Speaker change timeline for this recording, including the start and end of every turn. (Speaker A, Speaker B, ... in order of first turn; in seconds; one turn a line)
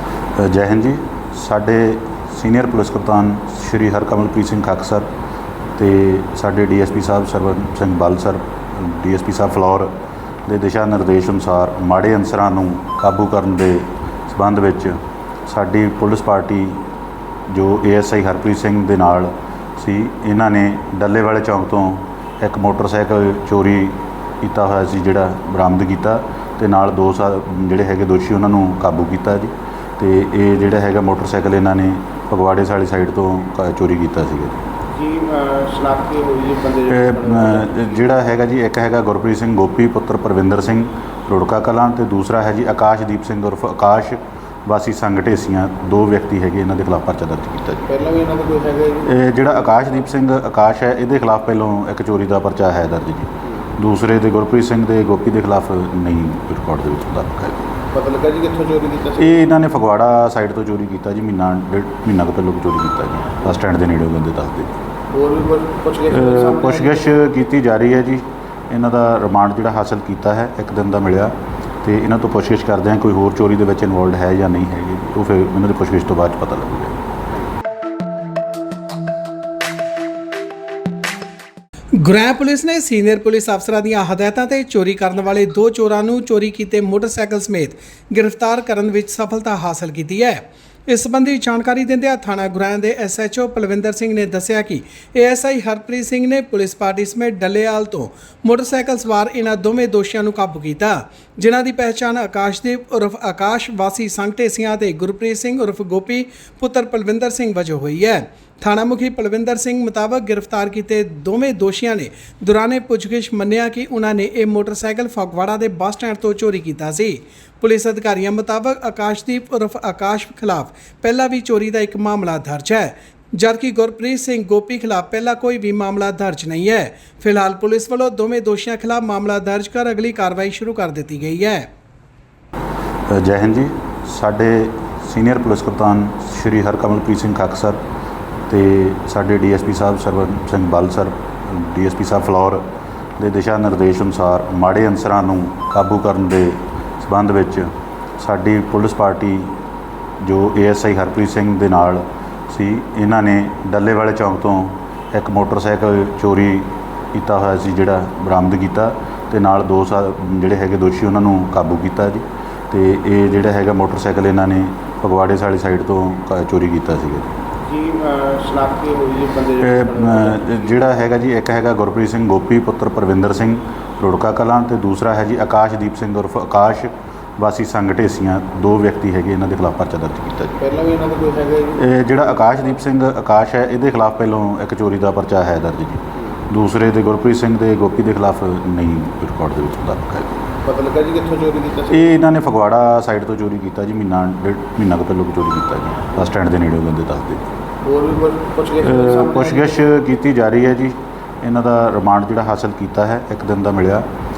Speaker A: 0.4-5.1
Speaker A: 5.8-9.9
Speaker A: 10.5-16.9
Speaker A: 17.5-34.6
Speaker B: 34.9-37.9
Speaker A: 36.9-48.0
Speaker B: 47.9-50.0
Speaker A: 49.0-57.6
Speaker B: 57.9-59.4
Speaker A: 59.2-64.7
Speaker B: 65.1-67.2
Speaker A: 66.1-76.9
Speaker C: 82.0-131.7
Speaker A: 133.1-137.8
Speaker A: 138.5-142.6
Speaker A: 143.2-149.6
Speaker A: 150.2-167.3
Speaker B: 167.7-170.6
Speaker A: 169.6-180.6
Speaker B: 180.6-182.7
Speaker A: 181.8-190.4
Speaker B: 190.6-192.1
Speaker A: 191.9-197.4
Speaker B: 197.8-199.8
Speaker A: 198.8-204.0